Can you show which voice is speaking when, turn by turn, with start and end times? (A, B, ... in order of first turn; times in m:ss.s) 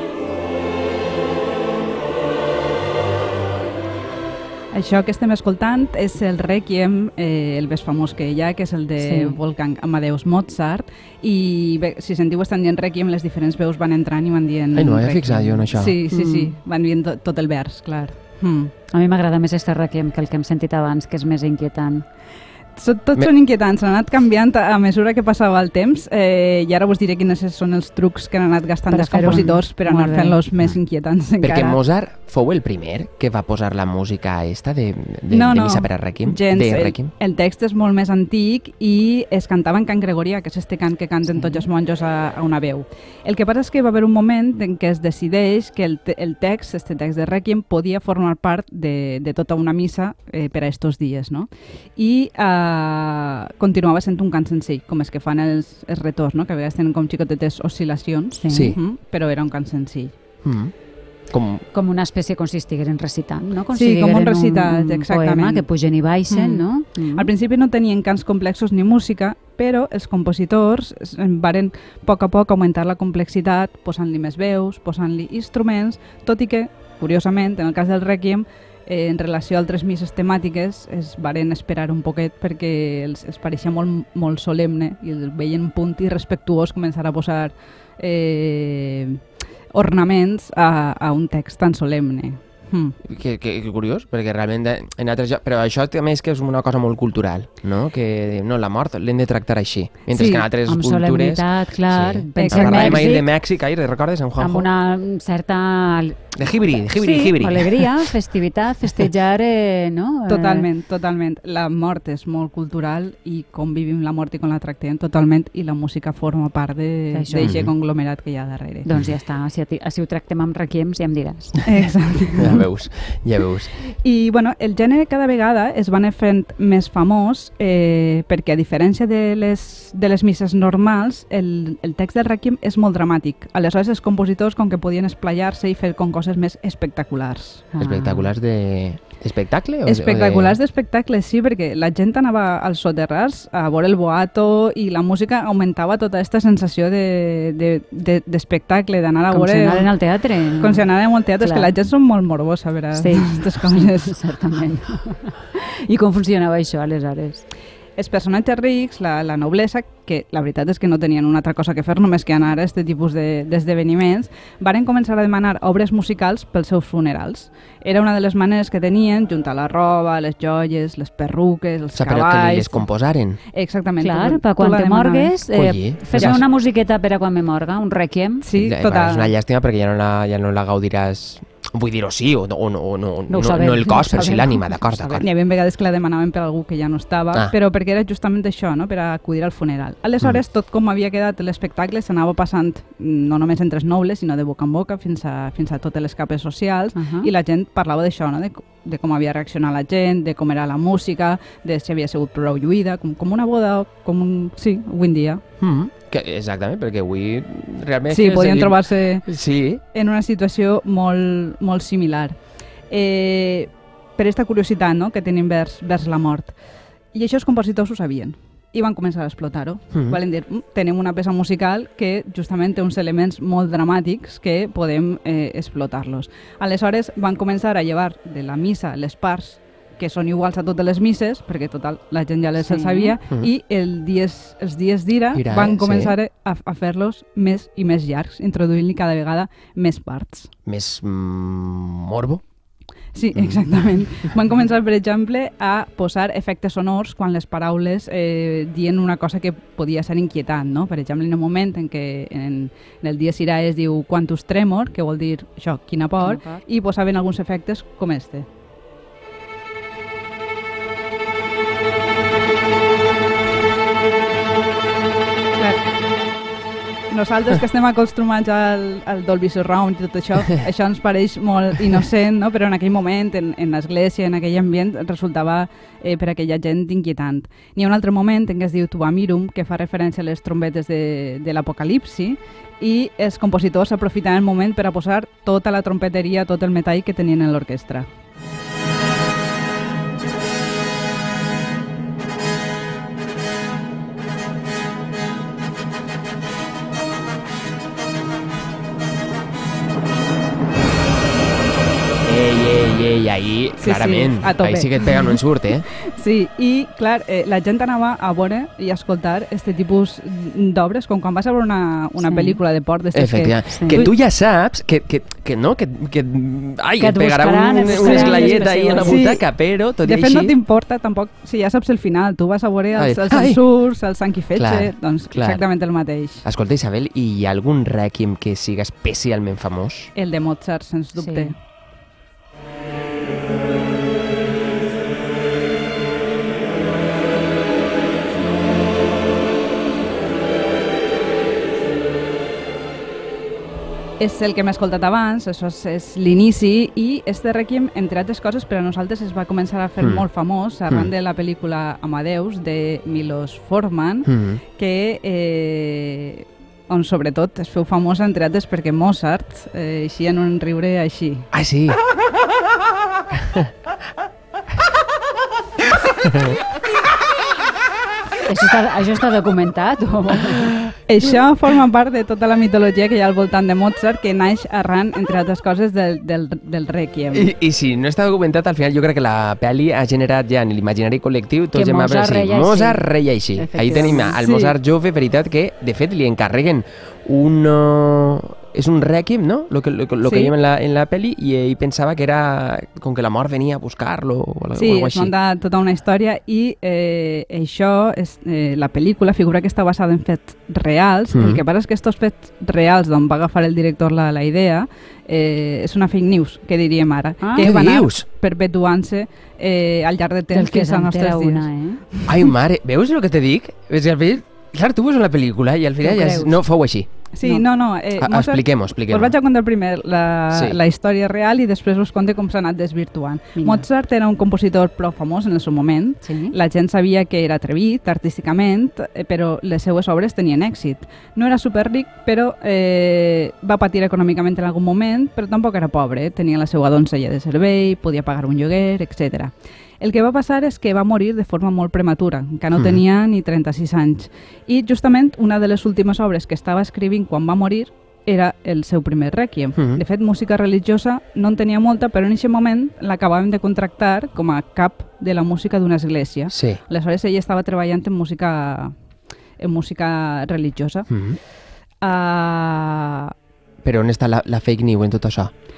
0:04.7-0:18.7 A
0:09.0-0:09.4 B
0:14.8-0:16.0 C
0:16.1-0:16.5 B
0:18.9-0:22.0 B
0:22.8-0:31.8 A
0:28.9-0:30.4 B
0:31.4-0:37.1 C
0:35.3-1:00.2 A
0:41.3-0:41.7 B
0:58.4-0:58.8 B
0:58.5-0:58.8 C
1:00.4-1:00.7 C
1:01.3-1:01.6 C
1:01.7-1:07.3 B
1:03.7-1:05.6 A
1:06.3-1:33.0 A
1:33.0-1:44.7 C
1:40.1-1:40.5 A
1:40.7-1:43.3 B
1:42.4-1:43.2 A
1:44.4-1:50.7 B
1:46.4-1:48.0 C
1:50.3-1:58.9 A
1:57.1-1:57.6 B
1:57.4-1:57.7 C
1:58.8-2:01.6 B
2:01.6-2:02.7 A
2:02.4-2:03.7 C
2:04.0-2:17.7 A
2:17.7-2:18.3 B
2:17.8-2:20.6 C
2:19.8-2:30.0 A
2:29.3-2:31.7 B
2:30.6-2:34.1 A
2:32.9-2:37.4 B
2:38.0-2:55.4 A
2:51.9-2:53.4 C
2:54.0-2:58.5 B
2:55.5-2:56.4 C
2:56.1-2:56.4 A
2:58.4-2:59.3 A
2:58.5-3:05.3 C
3:03.3-3:05.2 B
3:05.2-3:25.4 A
3:16.9-3:17.3 B
3:25.6-3:29.8 C
3:28.1-3:29.3 A
3:29.8-3:32.4 A
3:32.9-3:36.6 A
3:37.1-4:00.5 A
3:52.6-3:53.2 B
3:55.4-3:56.2 C
4:00.7-4:02.4 C
4:03.1-4:18.4 A
4:16.2-4:16.6 B
4:25.6-4:25.9 A
4:27.1-4:48.1 A
5:02.2-5:05.9 C
5:03.8-5:14.1 A
5:12.2-5:12.6 B
5:13.1-5:20.6 C
5:13.7-5:14.1 B
5:17.0-5:19.2 B
5:17.8-5:26.4 A
5:23.0-5:23.8 C
5:24.6-5:25.7 C
5:26.4-5:30.1 C
5:30.2-5:31.6 A
5:31.2-5:31.5 B
5:44.2-6:01.5 A
5:50.0-5:50.3 C
5:54.3-5:54.6 C
6:01.5-6:02.0 C
6:03.3-6:03.7 C
6:06.2-6:06.6 C
6:08.4-6:10.8 B
6:11.1-6:17.5 A
6:17.3-6:35.3 C
6:21.7-6:24.4 B
6:23.9-6:24.7 A
6:30.2-6:30.5 A
6:34.8-6:52.4 A
6:41.3-6:41.6 C
6:47.4-6:47.7 B
6:47.6-6:48.3 C
6:50.5-6:52.0 B
6:52.3-6:57.1 C
6:56.0-6:56.6 B
6:57.3-7:38.9 A
6:58.2-6:59.3 C
7:00.5-7:00.8 C
7:03.6-7:03.8 B
7:06.2-7:06.6 B
7:22.7-7:23.0 C
7:29.8-7:30.0 C
7:36.5-7:36.8 C
7:39.6-7:41.1 A
7:41.1-7:41.4 C
7:42.0-7:43.3 A
7:43.8-7:45.5 C